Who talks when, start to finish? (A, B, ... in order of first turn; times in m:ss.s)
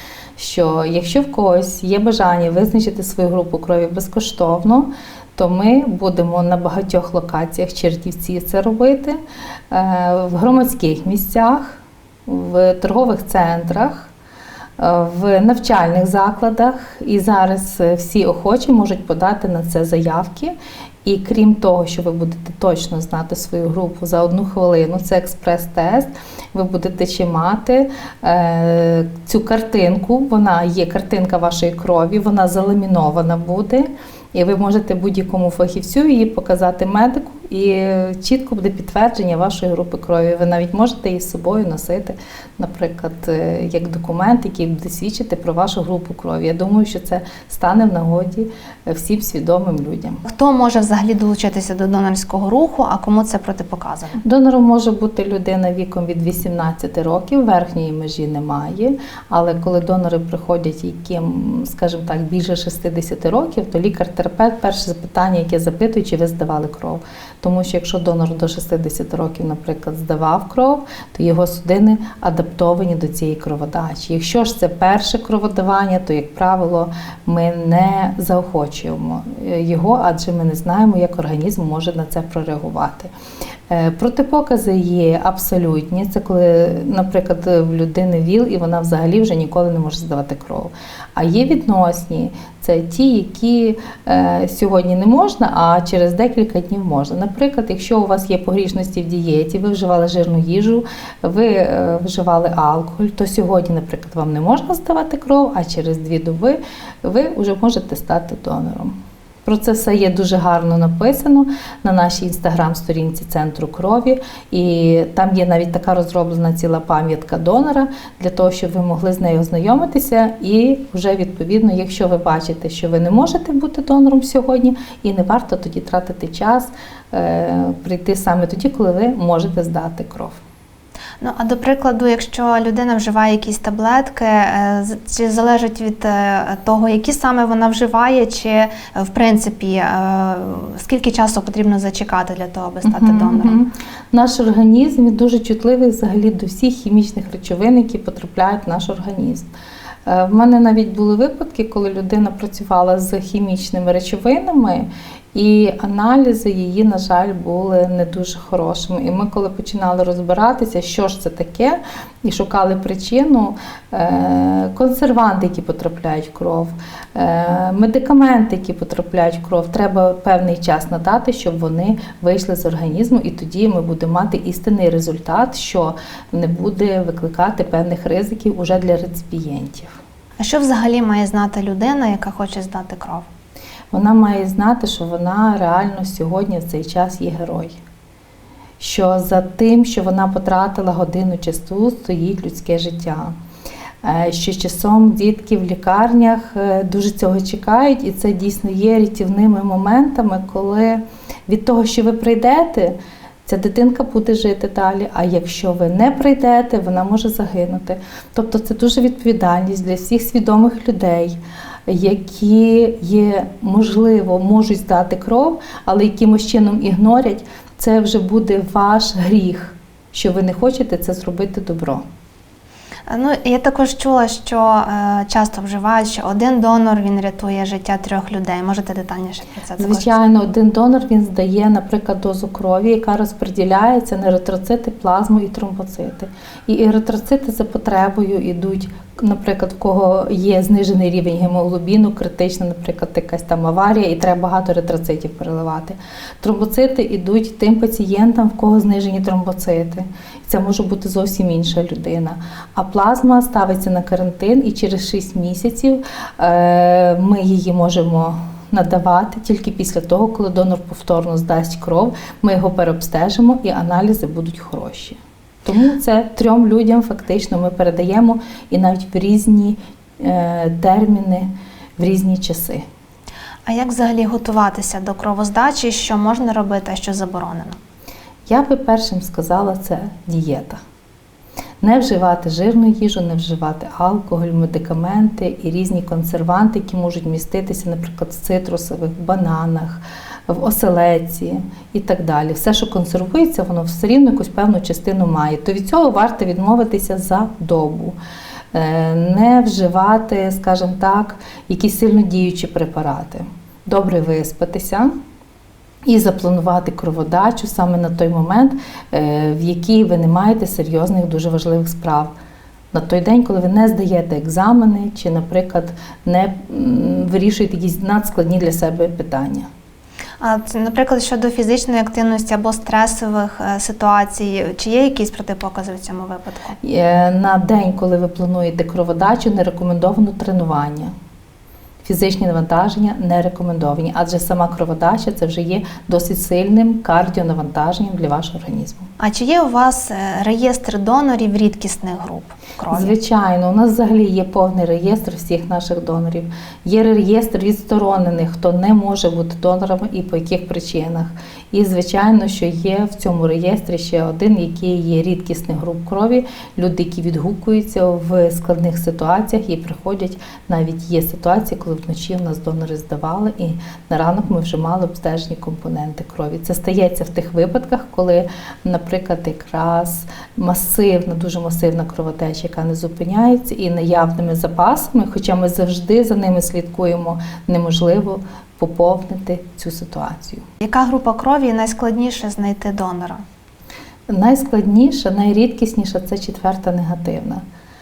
0:00.4-0:14.1 A
0:14.8-0:50.2 A
0:50.2-0:54.2 B
0:54.2-1:23.1 A
1:23.7-2:10.4 A
2:11.2-2:23.6 B
2:22.8-2:29.5 A
2:30.0-3:00.0 A
3:00.4-3:03.3 B
3:03.9-3:07.8 A
3:08.8-3:13.3 A
3:14.0-3:42.0 A
3:43.1-3:50.2 B
3:49.8-4:32.8 A
4:33.7-4:37.8 B
4:38.5-4:40.8 A
4:41.8-4:58.2 A
4:58.7-5:05.1 A
5:06.0-5:12.3 A
5:12.9-5:19.7 A
5:20.4-5:26.7 B
5:26.8-5:31.1 A
5:32.0-5:39.1 A
5:39.2-5:43.2 B
5:42.9-6:20.6 A
6:20.8-6:23.4 B
6:24.3-6:27.6 A